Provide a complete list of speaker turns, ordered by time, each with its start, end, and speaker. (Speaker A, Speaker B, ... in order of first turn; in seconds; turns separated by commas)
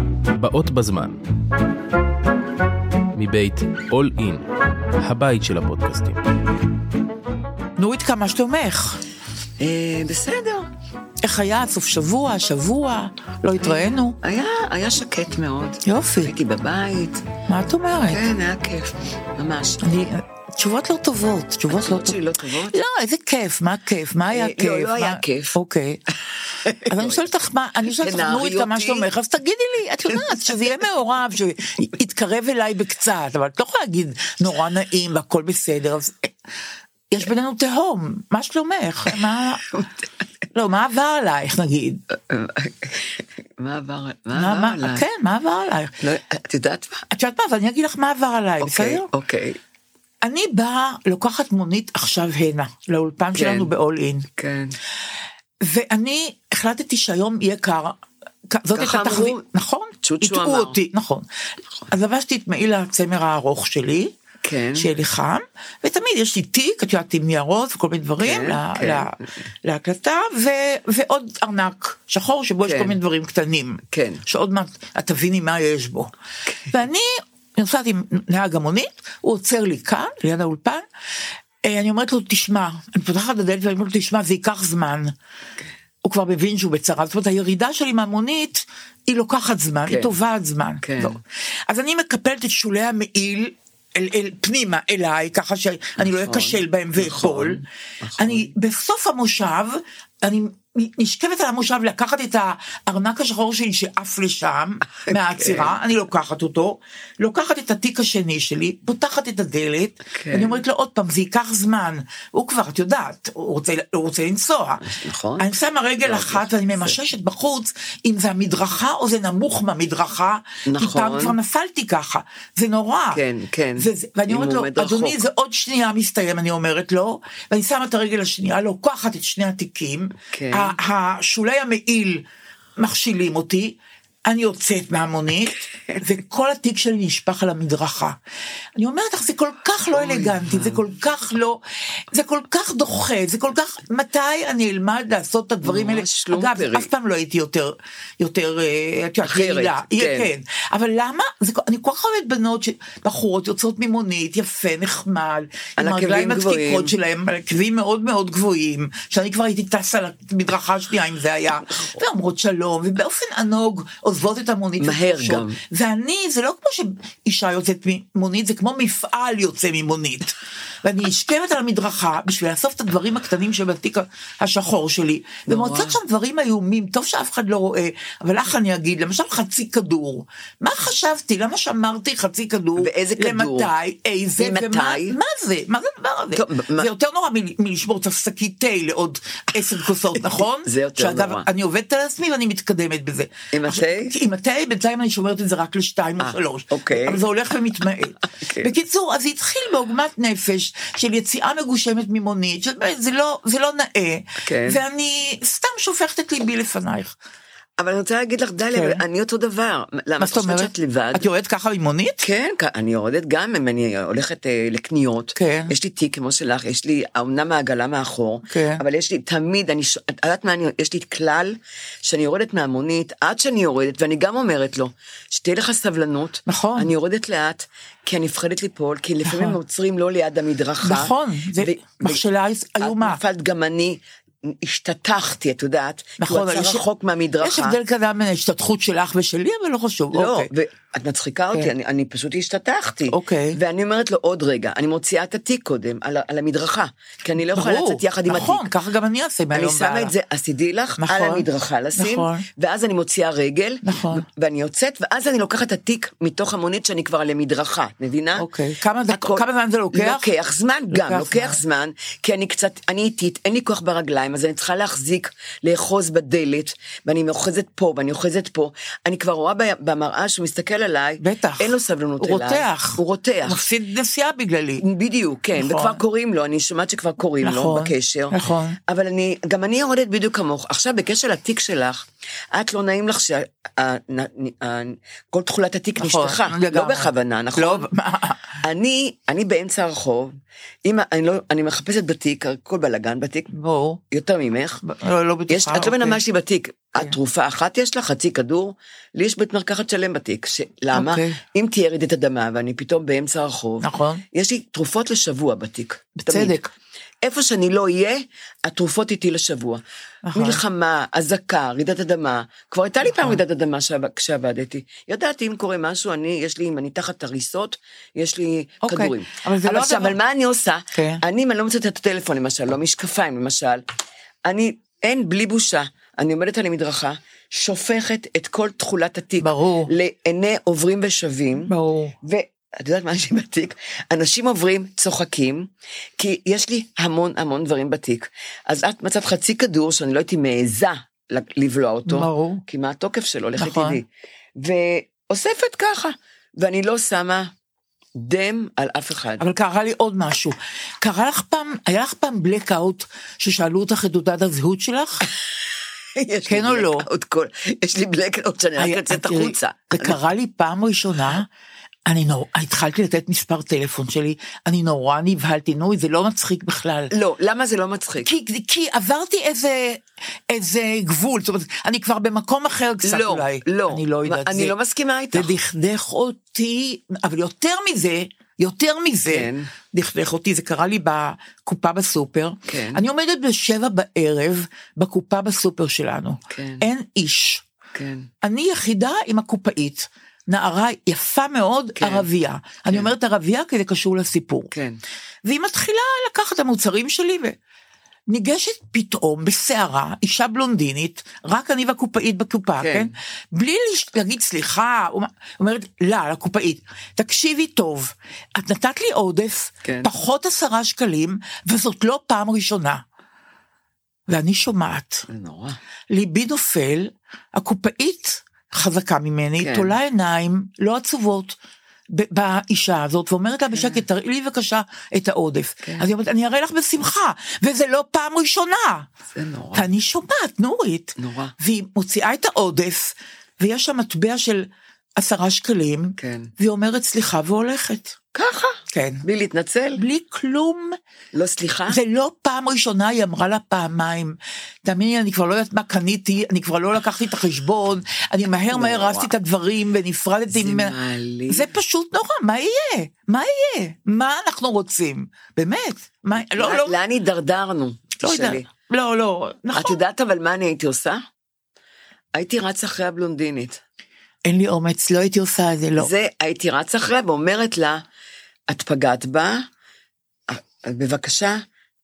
Speaker A: 0.3-1.2, Speaker A: 3.1-4.4, Speaker A: 5.0-6.2, Speaker B: 7.8-9.0, Speaker C: 9.6-10.7, Speaker B: 11.2-14.2, Speaker C: 14.2-17.3, Speaker B: 15.8-16.3, Speaker B: 17.5-18.3, Speaker C: 18.1-19.9, Speaker B: 19.8-22.2, Speaker C: 21.7-22.8, Speaker B: 22.7-26.0, Speaker C: 24.3-25.6, Speaker C: 26.5-27.2, Speaker B: 26.9-36.3, Speaker C: 27.9-29.1, Speaker B: 37.1-39.7, Speaker B: 40.5-42.0, Speaker C: 42.1-45.0, Speaker B: 44.3-45.9, Speaker C: 46.0-47.0, Speaker B: 47.1-49.1, Speaker C: 48.6-49.6, Speaker B: 50.2-54.3, Speaker C: 53.3-53.7, Speaker C: 54.4-54.8, Speaker B: 55.6-61.3, Speaker C: 58.7-59.4, Speaker C: 60.0-60.8, Speaker B: 61.9-64.1, Speaker C: 64.4-64.9, Speaker B: 64.8-76.1, Speaker C: 68.2-69.2, Speaker C: 72.6-73.0, Speaker C: 73.9-74.2, Speaker B: 76.7-80.8, Speaker B: 81.6-85.1, Speaker B: 86.0-97.6, Speaker C: 89.9-90.1, Speaker C: 90.8-91.2, Speaker C: 96.0-98.5, Speaker B: 98.2-114.8, Speaker C: 104.9-105.8, Speaker C: 110.1-110.6, Speaker C: 114.8-115.5, Speaker B: 115.4-123.2, Speaker C: 116.0-117.0, Speaker C: 120.7-121.3, Speaker C: 123.1-125.2, Speaker B: 123.8-132.2, Speaker C: 130.3-130.8, Speaker B: 132.8-138.2, Speaker C: 135.7-136.0, Speaker B: 138.8-207.1, Speaker C: 139.9-140.8, Speaker C: 145.6-146.9, Speaker C: 149.2-150.3, Speaker C: 155.8-156.9, Speaker C: 164.8-165.6, Speaker C: 175.5-175.9, Speaker C: 182.8-183.7, Speaker C: 184.4-185.2, Speaker C: 186.3-186.9, Speaker C: 190.6-191.5, Speaker C: 193.5-194.1, Speaker C: 196.2-197.2, Speaker C: 198.4-198.7, Speaker C: 204.4-204.8, Speaker C: 207.8-211.2, Speaker B: 208.7-209.0, Speaker B: 210.2-212.2, Speaker C: 212.2-232.2, Speaker B: 215.3-215.7, Speaker B: 218.5-218.8, Speaker B: 226.4-226.9, Speaker B: 229.2-229.6, Speaker B: 230.8-233.2, Speaker C: 232.8-237.8, Speaker B: 236.2-236.8, Speaker B: 237.4-240.5, Speaker C: 240.1-248.7, Speaker B: 243.1-243.6, Speaker B: 247.5-250.1, Speaker C: 249.5-258.5, Speaker B: 251.0-251.4, Speaker B: 251.9-252.4, Speaker B: 253.8-254.2, Speaker B: 258.4-260.3, Speaker C: 259.1-273.6, Speaker B: 260.9-261.6, Speaker B: 271.2-274.8, Speaker C: 274.8-287.9, Speaker B: 275.6-276.0, Speaker B: 277.4-278.8, Speaker B: 286.0-288.6, Speaker C: 288.6-293.5, Speaker B: 293.5-294.0, Speaker C: 294.1-294.8, Speaker B: 294.8-296.2, Speaker C: 295.5-306.6, Speaker B: 300.9-301.4, Speaker B: 303.8-304.2, Speaker B: 306.2-306.7, Speaker C: 307.2-309.8, Speaker B: 310.2-310.6, Speaker C: 310.3-323.8, Speaker B: 313.0-313.4, Speaker B: 318.8-320.1, Speaker B: 320.9-321.2, Speaker C: 324.4-344.1, Speaker B: 329.4-329.9, Speaker B: 331.6-332.1, Speaker B: 342.1-342.6, Speaker B: 343.6-344.0, Speaker C: 344.6-347.5, Speaker C: 348.1-349.4, Speaker B: 349.4-355.3, Speaker C: 356.1-360.2, Speaker B: 356.4-357.1, Speaker B: 358.8-361.5, Speaker B: 362.1-367.1, Speaker C: 367.1-368.3, Speaker B: 368.2-374.7, Speaker C: 373.0-375.6, Speaker B: 375.3-387.6, Speaker C: 379.2-379.7, Speaker C: 382.7-383.0, Speaker C: 386.5-386.8, Speaker C: 387.9-388.3, Speaker B: 388.4-394.7, Speaker C: 392.0-392.3, Speaker C: 394.7-395.0, Speaker B: 395.4-397.6, Speaker B: 398.3-413.0, Speaker C: 402.8-403.1, Speaker C: 409.8-410.1, Speaker B: 414.3-415.3, Speaker C: 415.3-415.8, Speaker B: 416.1-421.6, Speaker C: 419.6-419.9, Speaker B: 422.1-429.1, Speaker C: 423.8-424.0, Speaker C: 425.8-426.1, Speaker C: 429.3-429.9, Speaker B: 429.7-438.1, Speaker C: 431.2-431.5, Speaker C: 436.2-436.5, Speaker C: 438.3-440.0, Speaker B: 438.9-439.2, Speaker B: 440.0-441.0, Speaker C: 441.3-442.0, Speaker B: 441.9-450.9, Speaker C: 448.7-449.3, Speaker C: 450.5-451.7, Speaker B: 451.5-456.9, Speaker C: 456.6-458.7, Speaker B: 458.2-460.0, Speaker C: 459.7-461.2, Speaker C: 462.3-463.8, Speaker B: 464.4-466.1, Speaker C: 466.0-468.0, Speaker C: 468.7-469.6, Speaker C: 470.5-471.6